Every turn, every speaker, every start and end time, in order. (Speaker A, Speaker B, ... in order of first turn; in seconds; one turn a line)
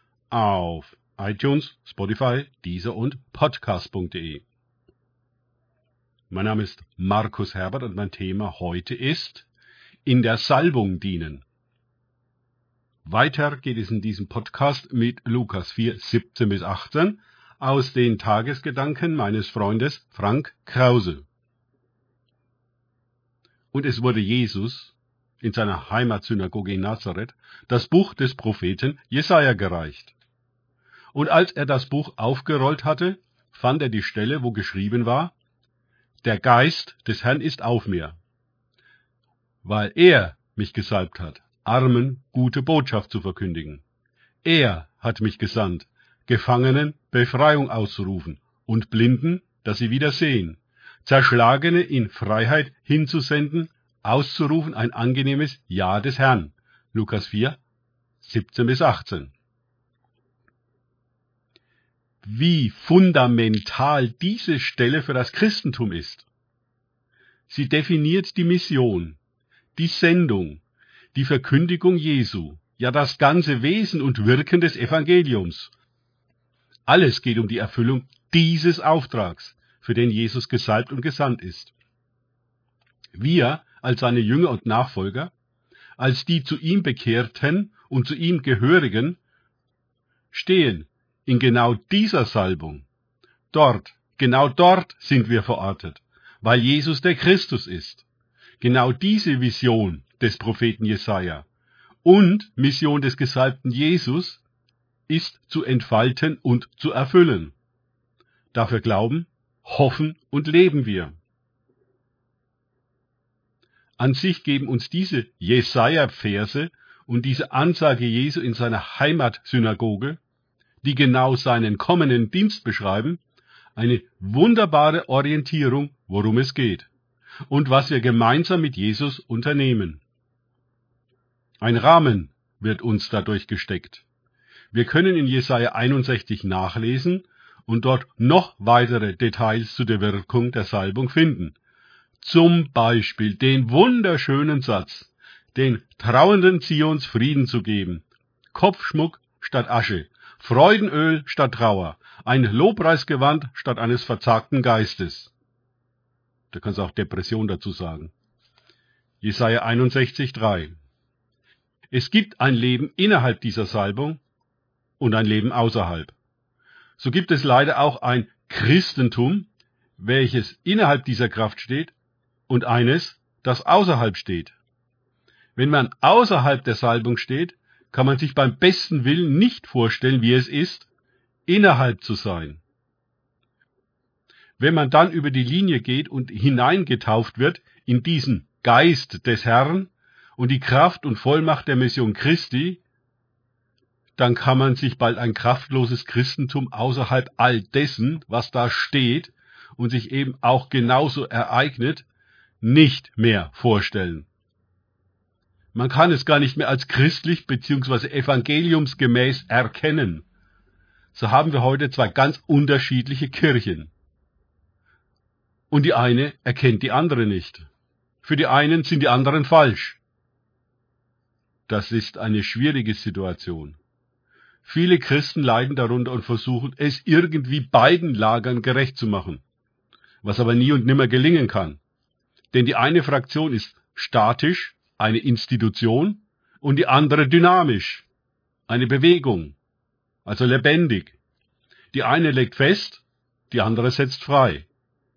Speaker A: 0.3-4.4
Speaker A: 6.3-9.5
Speaker A: 10.1-11.4
Speaker A: 13.0-21.2
Speaker A: 23.7-30.1
Speaker A: 31.1-35.3
Speaker A: 36.2-38.2
Speaker A: 39.6-43.8
Speaker A: 44.4-57.6
Speaker A: 58.2-59.3
Speaker A: 62.2-66.3
Speaker A: 67.5-69.2
Speaker A: 69.8-70.6
Speaker A: 71.1-75.7
Speaker A: 76.9-81.7
Speaker A: 83.1-85.3
Speaker A: 86.0-89.2
Speaker A: 90.3-92.8
Speaker A: 93.5-98.0
Speaker A: 98.6-101.5
Speaker A: 102.0-104.4
Speaker A: 105.1-107.5
Speaker A: 108.5-111.2
Speaker A: 114.0-120.2
Speaker A: 120.8-123.2
Speaker A: 123.8-126.9
Speaker A: 127.5-130.0
Speaker A: 131.6-134.0
Speaker A: 134.7-141.6
Speaker A: 142.2-155.3
Speaker A: 156.5-158.1
Speaker A: 159.2-160.7
Speaker A: 161.9-164.2
Speaker A: 165.0-166.1
Speaker A: 167.0-171.9
Speaker A: 172.5-174.5
Speaker A: 175.6-180.9
Speaker A: 181.4-182.6
Speaker A: 184.6-192.8
Speaker A: 194.2-202.1
Speaker A: 202.6-204.3
Speaker A: 205.7-210.2
Speaker A: 211.1-213.9
Speaker A: 215.7-217.7
Speaker A: 218.2-220.0
Speaker A: 221.7-223.8
Speaker A: 224.6-229.4
Speaker A: 230.2-231.8
Speaker A: 232.5-238.1
Speaker A: 238.7-239.6
Speaker A: 240.2-241.2
Speaker A: 241.9-244.7